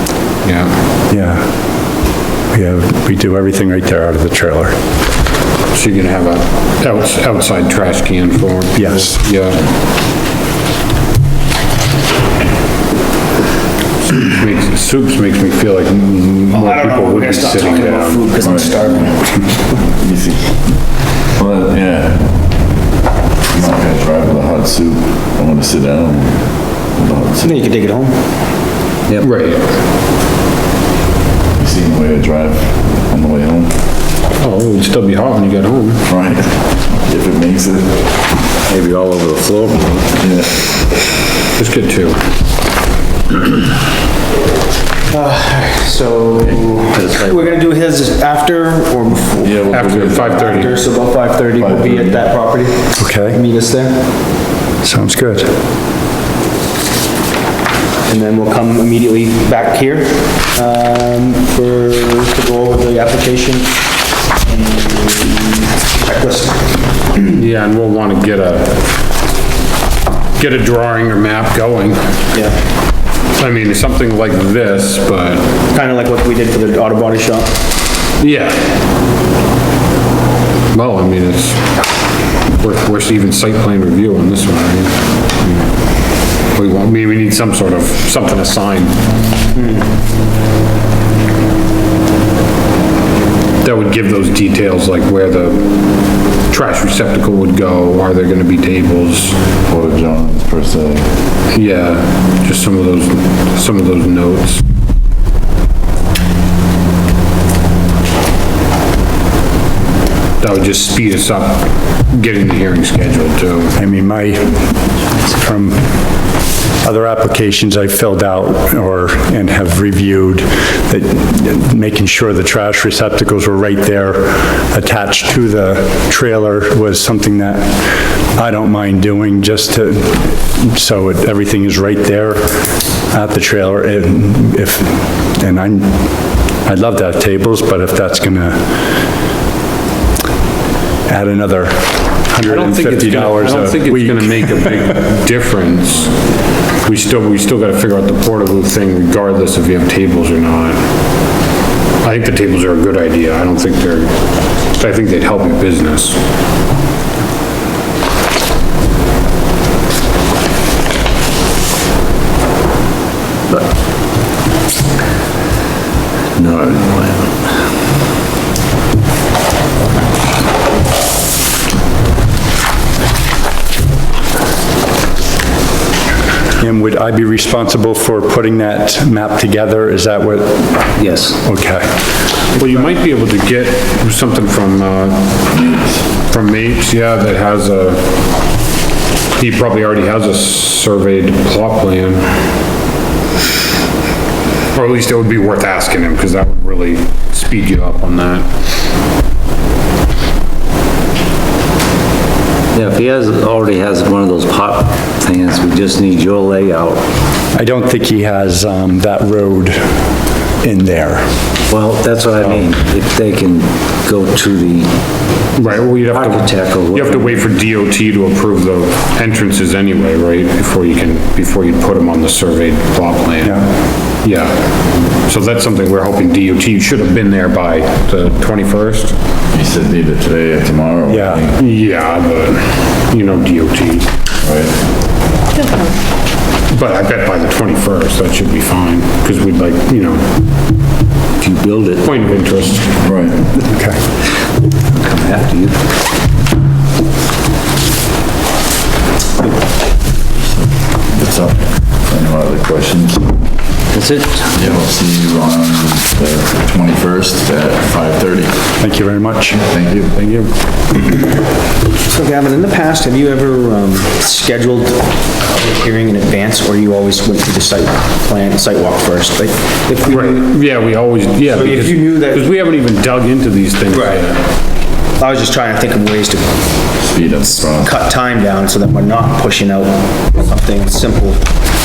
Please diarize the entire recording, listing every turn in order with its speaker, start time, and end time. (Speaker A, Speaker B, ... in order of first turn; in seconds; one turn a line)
Speaker A: 0.4-0.8
Speaker B: 1.1-4.8
Speaker A: 5.7-9.6
Speaker B: 8.8-9.2
Speaker A: 14.3-18.6
Speaker C: 16.5-19.8
Speaker D: 18.4-19.2
Speaker D: 19.8-22.5
Speaker D: 23.5-27.6
Speaker C: 27.4-28.2
Speaker A: 29.2-29.8
Speaker D: 31.6-33.8
Speaker A: 34.4-36.0
Speaker D: 36.1-38.1
Speaker E: 38.7-40.2
Speaker D: 40.2-40.6
Speaker A: 41.6-42.2
Speaker C: 45.1-54.0
Speaker E: 46.4-47.6
Speaker D: 49.4-50.6
Speaker A: 49.7-50.7
Speaker D: 51.6-52.4
Speaker B: 53.0-53.4
Speaker B: 54.8-55.5
Speaker C: 58.1-63.8
Speaker C: 64.4-67.4
Speaker A: 67.3-68.9
Speaker A: 70.4-72.2
Speaker A: 73.3-75.5
Speaker C: 75.7-77.5
Speaker A: 78.2-78.8
Speaker A: 80.7-81.9
Speaker A: 82.5-85.0
Speaker A: 86.5-89.1
Speaker C: 89.5-89.9
Speaker A: 93.6-99.4
Speaker D: 99.7-101.1
Speaker A: 101.5-104.6
Speaker A: 110.4-113.8
Speaker B: 113.8-139.0
Speaker B: 141.1-145.1
Speaker A: 142.4-150.9
Speaker A: 152.0-156.2
Speaker E: 166.3-167.3
Speaker B: 176.6-181.9
Speaker E: 181.0-181.4
Speaker A: 182.5-185.5
Speaker D: 185.5-186.1
Speaker A: 186.3-188.2
Speaker A: 189.3-192.3
Speaker A: 194.7-198.5
Speaker E: 202.7-207.1
Speaker B: 207.5-211.3
Speaker E: 211.7-214.9
Speaker A: 215.6-229.2
Speaker E: 216.1-217.4
Speaker D: 229.5-231.6
Speaker B: 231.1-231.4
Speaker A: 231.6-234.1
Speaker D: 234.4-234.8
Speaker A: 236.7-240.4
Speaker E: 241.4-242.2
Speaker A: 242.0-242.9
Speaker D: 243.0-243.5
Speaker B: 243.7-244.1
Speaker E: 244.9-245.8
Speaker D: 250.5-253.4
Speaker E: 253.9-254.7
Speaker D: 254.6-258.7
Speaker B: 258.8-259.6
Speaker D: 259.6-260.2
Speaker A: 260.1-260.5
Speaker C: 262.1-270.4
Speaker A: 270.1-274.4
Speaker C: 271.5-272.5
Speaker C: 273.9-274.2
Speaker C: 275.2-276.5
Speaker D: 277.0-277.9
Speaker C: 277.6-281.5